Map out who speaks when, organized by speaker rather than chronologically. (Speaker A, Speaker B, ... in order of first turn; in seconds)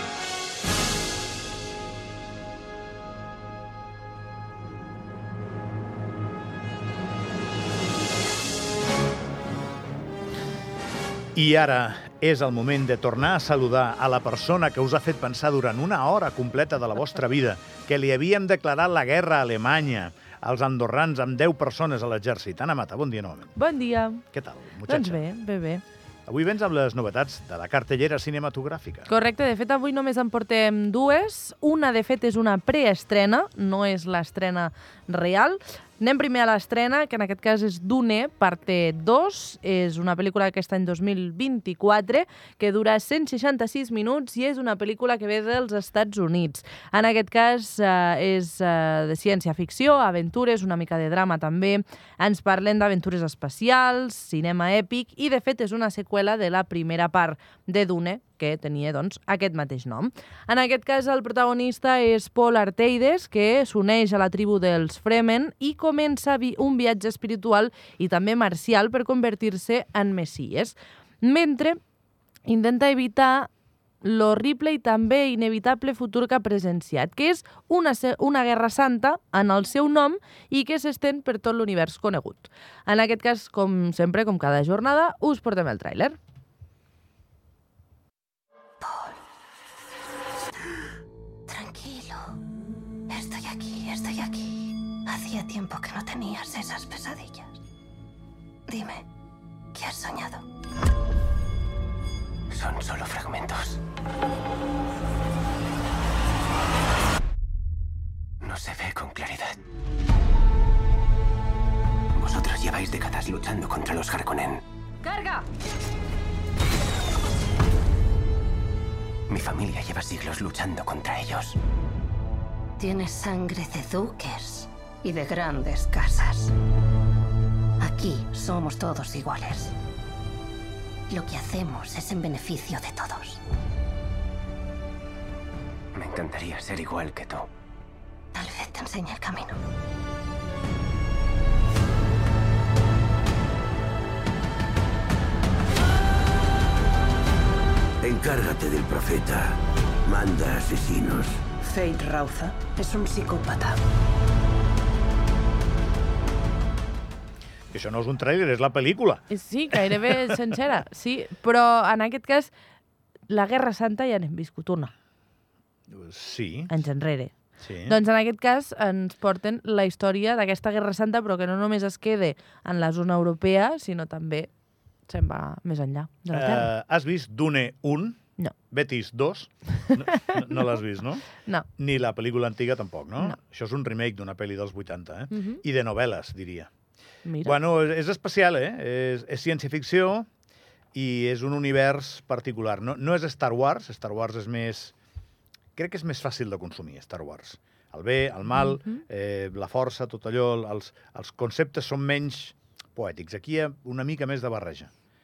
Speaker A: 11.3-23.5, 24.3-25.2, 26.2-29.1, 157.7-159.3, 159.9-160.4, 165.9-166.7, 167.6-168.0, 176.3-186.7, 187.4-190.3, 190.9-194.9, 195.8-204.9
Speaker B: 23.6-24.2, 24.9-25.8, 29.1-71.8, 72.5-73.5, 74.0-86.2, 159.3-162.5, 163.3-164.9, 166.7-167.3, 167.8-174.5, 175.1-176.7, 179.9-180.6, 185.3-185.6, 187.2-187.6, 198.6-199.0
Speaker C: 88.8-89.2, 91.5-92.4, 93.1-97.6, 98.7-99.0, 99.7-100.4, 122.8-126.5, 127.8-129.7, 131.1-133.4, 138.3-139.6, 151.6-153.8
Speaker D: 102.5-103.8, 108.4-109.6, 112.2-114.6, 119.3-121.6, 135.9-137.5
Speaker E: 148.0-149.5, 150.1-151.4